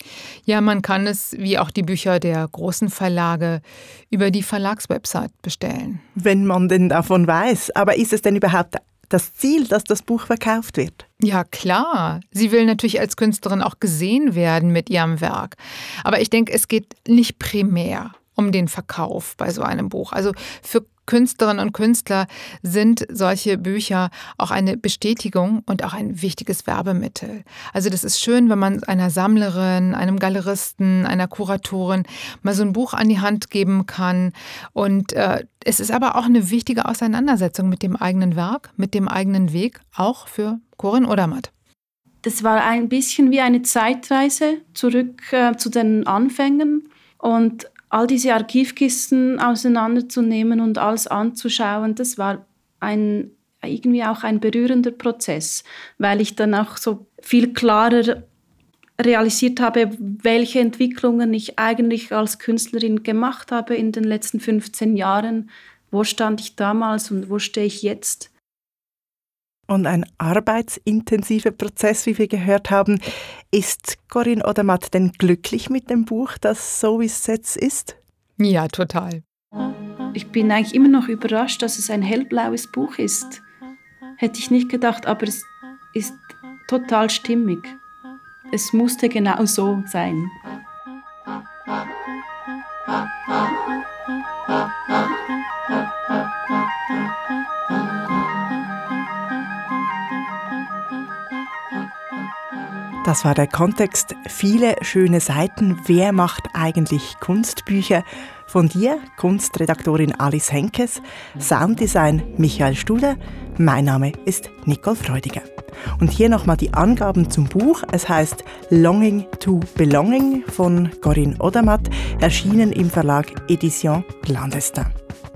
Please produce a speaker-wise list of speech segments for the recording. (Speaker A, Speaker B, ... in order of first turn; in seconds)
Speaker A: 0.5-6.0, 11.2-41.5, 78.4-79.2
Speaker B: 6.2-11.1, 69.7-73.0, 73.5-78.0, 103.0-124.9
Speaker C: 42.2-58.3, 59.0-68.3, 80.1-83.4, 84.2-87.8, 88.5-90.4